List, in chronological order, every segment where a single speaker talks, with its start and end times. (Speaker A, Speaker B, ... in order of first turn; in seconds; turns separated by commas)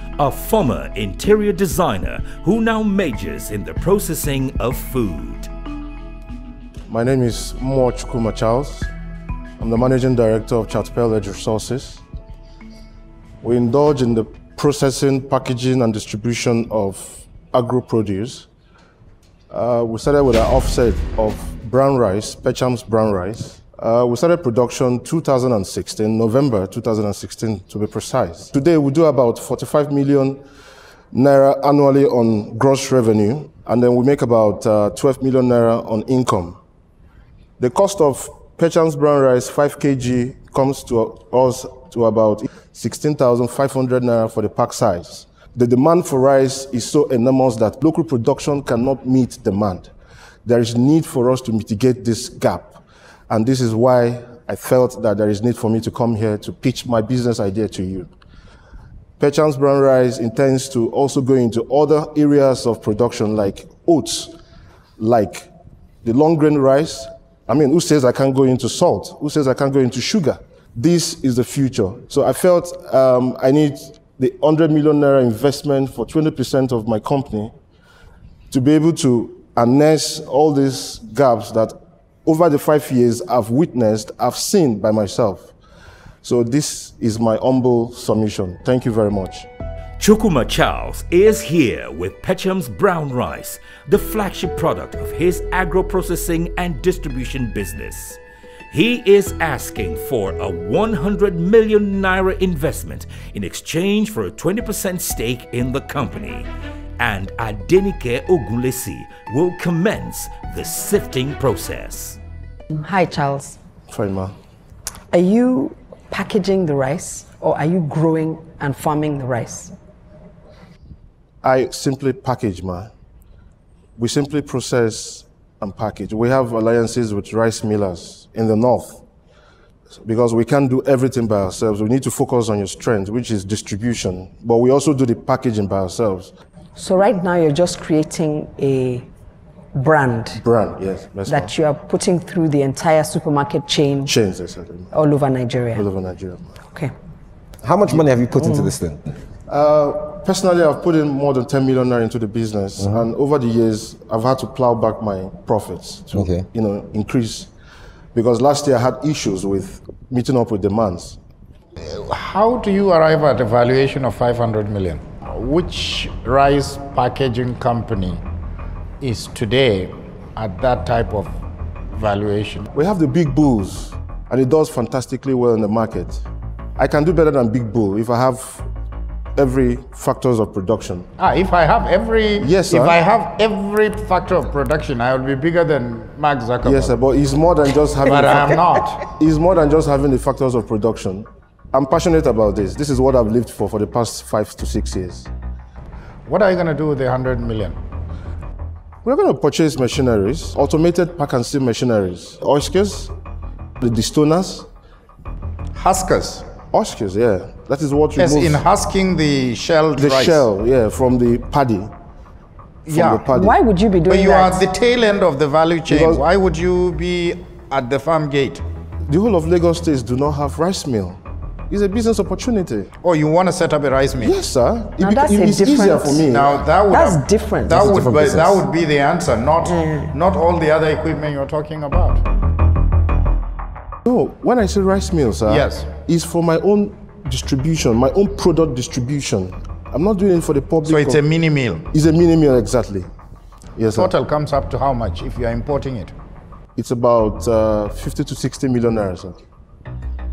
Speaker A: 0.2-5.5, Speaker B: 6.9-8.9, Speaker B: 9.6-12.0, Speaker B: 13.4-18.5, Speaker B: 19.5-30.4, Speaker B: 31.1-36.6, Speaker B: 37.6-49.9, Speaker B: 50.5-58.1, Speaker B: 59.2-64.3, Speaker B: 65.0-65.5, Speaker B: 66.0-77.5, Speaker B: 78.5-85.5, Speaker B: 86.2-89.5, Speaker A: 90.0-112.2, Speaker C: 112.7-113.6, Speaker B: 113.9-114.3, Speaker C: 115.1-119.7, Speaker B: 121.4-122.9, Speaker B: 124.0-129.0, Speaker B: 130.0-136.3, Speaker C: 136.8-139.1, Speaker C: 139.7-140.4, Speaker B: 140.4-141.5, Speaker C: 141.3-144.1, Speaker B: 144.1-144.9, Speaker C: 144.9-145.8, Speaker B: 145.7-146.6, Speaker C: 146.7-146.9, Speaker D: 147.6-149.1, Speaker B: 149.5-157.5, Speaker D: 156.2-156.4, Speaker B: 158.1-161.2, Speaker E: 161.8-168.2, Speaker E: 169.0-171.3, Speaker E: 171.9-172.7, Speaker B: 172.7-176.3, Speaker B: 176.8-178.7, Speaker B: 179.4-181.1, Speaker E: 181.2-187.0, Speaker B: 182.4-183.0, Speaker B: 186.6-195.3, Speaker E: 188.1-189.0, Speaker E: 196.3-197.8, Speaker B: 199.0-203.1, Speaker B: 203.8-204.7, Speaker E: 205.8-206.5, Speaker B: 206.7-208.6, Speaker E: 208.2-210.4, Speaker B: 210.0-211.9, Speaker B: 212.8-213.6, Speaker E: 212.9-213.2, Speaker C: 213.3-214.7, Speaker E: 214.1-218.6, Speaker B: 215.9-216.2, Speaker B: 219.1-222.9, Speaker E: 223.0-224.4, Speaker B: 224.2-226.6, Speaker C: 225.0-226.3, Speaker E: 226.3-232.2, Speaker C: 226.9-228.0, Speaker D: 228.0-228.6, Speaker C: 229.6-230.1, Speaker B: 234.1-241.2, Speaker E: 235.4-235.9, Speaker E: 240.9-241.9, Speaker B: 241.9-243.1, Speaker B: 243.8-244.1, Speaker E: 243.9-246.1, Speaker B: 246.8-249.4